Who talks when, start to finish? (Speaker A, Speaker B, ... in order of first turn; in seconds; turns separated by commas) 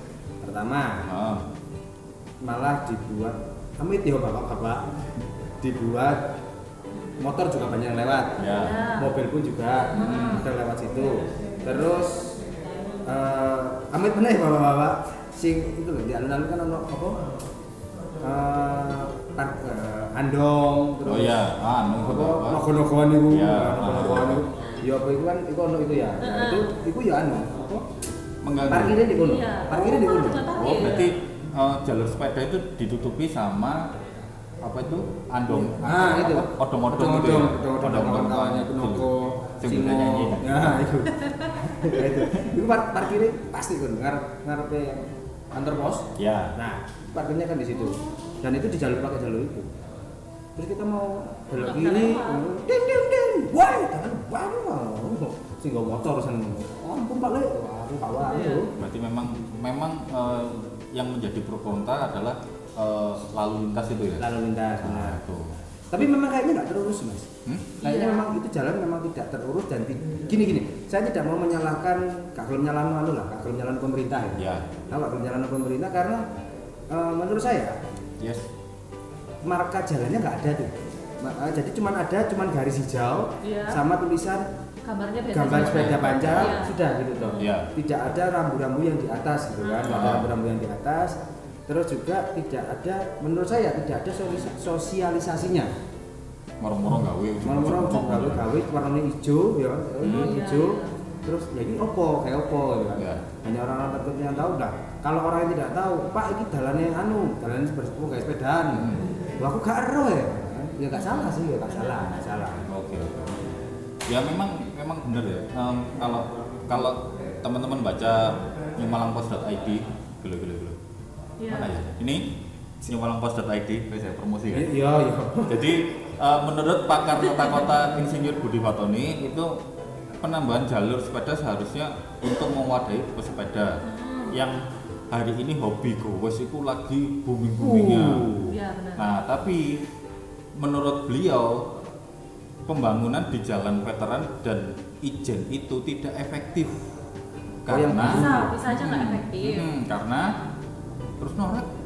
Speaker A: 0.4-1.1, Speaker B: 1.1-1.5, Speaker A: 2.4-4.9, Speaker A: 5.6-6.2, Speaker C: 7.0-7.3, Speaker A: 7.2-12.4, Speaker B: 8.4-8.9, Speaker C: 8.5-9.1, Speaker C: 9.9-10.5, Speaker B: 9.9-10.4, Speaker A: 13.1-17.2, Speaker A: 18.2-21.4, Speaker B: 21.1-22.7, Speaker A: 22.0-27.8, Speaker B: 23.3-24.4, Speaker C: 26.2-26.7, Speaker B: 28.4-29.0, Speaker A: 28.7-30.5, Speaker C: 29.1-31.1, Speaker B: 30.6-33.9, Speaker B: 34.6-39.1, Speaker A: 35.5-49.7, Speaker B: 39.6-41.1, Speaker B: 42.0-42.5, Speaker B: 46.2-46.5, Speaker C: 47.7-48.6, Speaker A: 50.6-58.7, Speaker C: 51.5-52.5, Speaker C: 58.2-58.7, Speaker B: 58.8-64.3, Speaker A: 64.2-65.2, Speaker B: 64.8-65.6, Speaker A: 65.9-67.3, Speaker B: 67.5-67.8, Speaker A: 67.8-76.2, Speaker C: 67.8-68.3, Speaker B: 74.4-74.7, Speaker A: 76.9-77.8, Speaker B: 78.2-78.5, Speaker A: 79.4-80.7, Speaker A: 81.2-84.5, Speaker C: 83.4-83.8, Speaker C: 84.8-87.5, Speaker A: 85.3-95.7, Speaker B: 85.5-86.6, Speaker B: 87.4-87.7, Speaker C: 89.6-90.1, Speaker B: 89.8-90.3, Speaker B: 96.6-98.5, Speaker A: 97.4-112.7, Speaker B: 100.0-100.4, Speaker C: 100.0-101.2, Speaker B: 103.0-103.2, Speaker B: 108.7-109.1, Speaker C: 110.9-112.6, Speaker B: 112.7-113.4, Speaker B: 114.1-120.8, Speaker C: 121.4-121.7, Speaker B: 121.5-122.3, Speaker B: 122.8-124.7, Speaker A: 124.5-125.7, Speaker B: 125.5-129.5, Speaker C: 127.2-127.6, Speaker B: 130.2-133.8, Speaker C: 133.8-134.4, Speaker B: 134.3-134.6, Speaker B: 135.1-138.4, Speaker A: 137.6-138.5, Speaker C: 138.5-139.1, Speaker B: 139.0-139.8, Speaker B: 140.6-141.7, Speaker B: 142.7-146.7, Speaker B: 147.6-150.3, Speaker A: 147.7-148.6, Speaker C: 147.9-149.7, Speaker B: 151.2-151.7